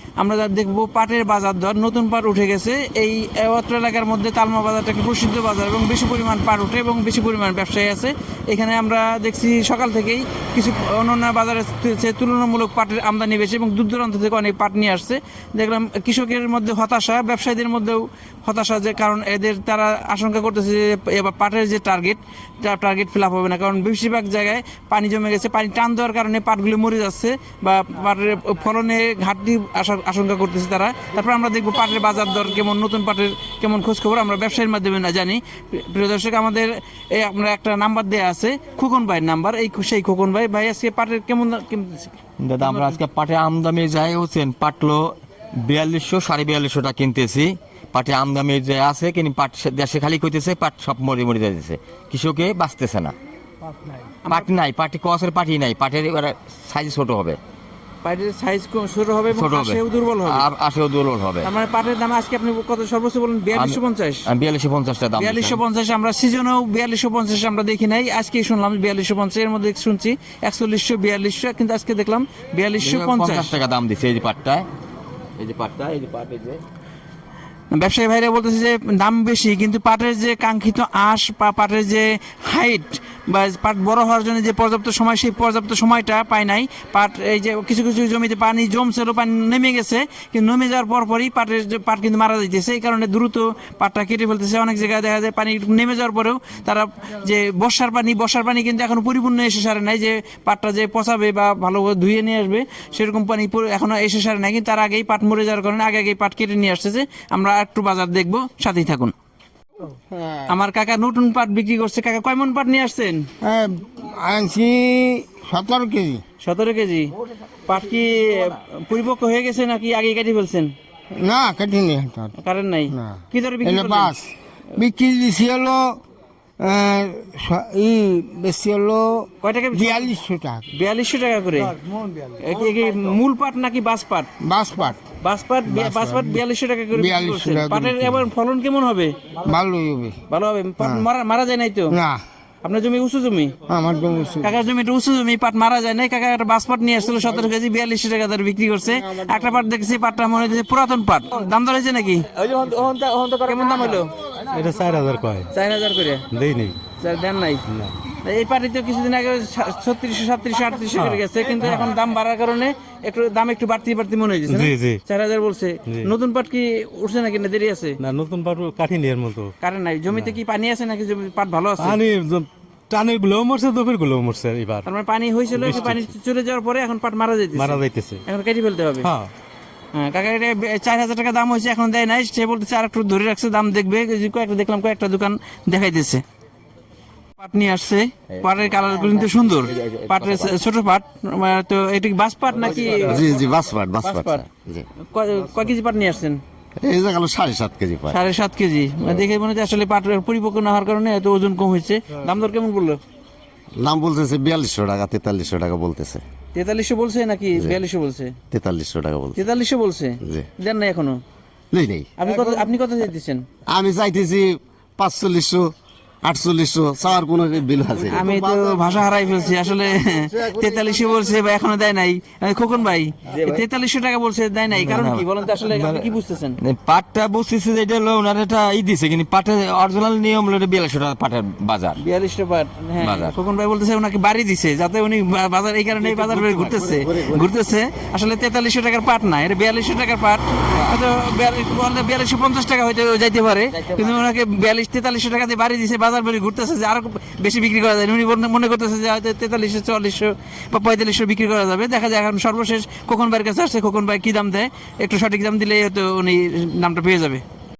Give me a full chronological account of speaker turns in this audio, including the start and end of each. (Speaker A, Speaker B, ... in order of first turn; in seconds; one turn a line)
Speaker A: 0.2-43.0
Speaker B: 42.4-53.1
Speaker B: 54.3-57.4
Speaker A: 58.0-60.4
Speaker B: 59.3-61.5
Speaker A: 61.4-64.3
Speaker B: 63.5-65.6
Speaker A: 65.2-73.5
Speaker B: 72.8-74.7
Speaker B: 75.4-76.6
Speaker A: 77.7-109.1
Speaker C: 109.9-110.5
Speaker A: 110.5-113.3
Speaker C: 113.4-116.2
Speaker A: 116.4-117.1
Speaker A: 117.7-120.7
Speaker C: 121.2-122.3
Speaker A: 122.4-124.1
Speaker C: 122.9-126.0
Speaker C: 126.6-130.7
Speaker A: 129.4-130.1
Speaker A: 130.7-131.7
Speaker A: 132.4-134.3
Speaker C: 134.4-135.0
Speaker A: 135.2-139.1
Speaker C: 135.7-138.3
Speaker C: 139.4-140.2
Speaker A: 140.3-141.9
Speaker C: 140.8-141.1
Speaker C: 141.9-142.2
Speaker A: 142.6-143.5
Speaker C: 143.7-144.5
Speaker A: 144.4-152.3
Speaker B: 152.4-153.4
Speaker A: 153.4-154.1
Speaker D: 154.5-155.5
Speaker A: 155.5-156.2
Speaker D: 156.3-156.8
Speaker A: 157.0-168.0
Speaker D: 157.7-158.0
Speaker D: 160.9-161.2
Speaker D: 164.5-165.0
Speaker D: 168.0-169.5
Speaker A: 169.6-172.0
Speaker D: 171.8-174.9
Speaker A: 174.8-179.1
Speaker D: 175.5-176.0
Speaker D: 177.5-178.2
Speaker D: 179.0-179.3
Speaker A: 179.9-186.2
Speaker A: 187.4-193.3
Speaker B: 188.7-190.5
Speaker E: 193.0-194.8
Speaker A: 194.0-194.4
Speaker A: 195.1-196.4
Speaker E: 196.8-198.2
Speaker A: 198.1-203.0
Speaker E: 203.8-206.2
Speaker A: 206.5-208.3
Speaker E: 208.5-209.4
Speaker A: 209.3-211.2
Speaker E: 211.7-212.6
Speaker A: 212.2-213.4
Speaker E: 213.7-219.0
Speaker A: 218.0-226.6
Speaker E: 219.7-221.1
Speaker B: 224.7-232.0
Speaker A: 232.0-257.4
Speaker B: 233.0-233.3
Speaker E: 236.0-237.5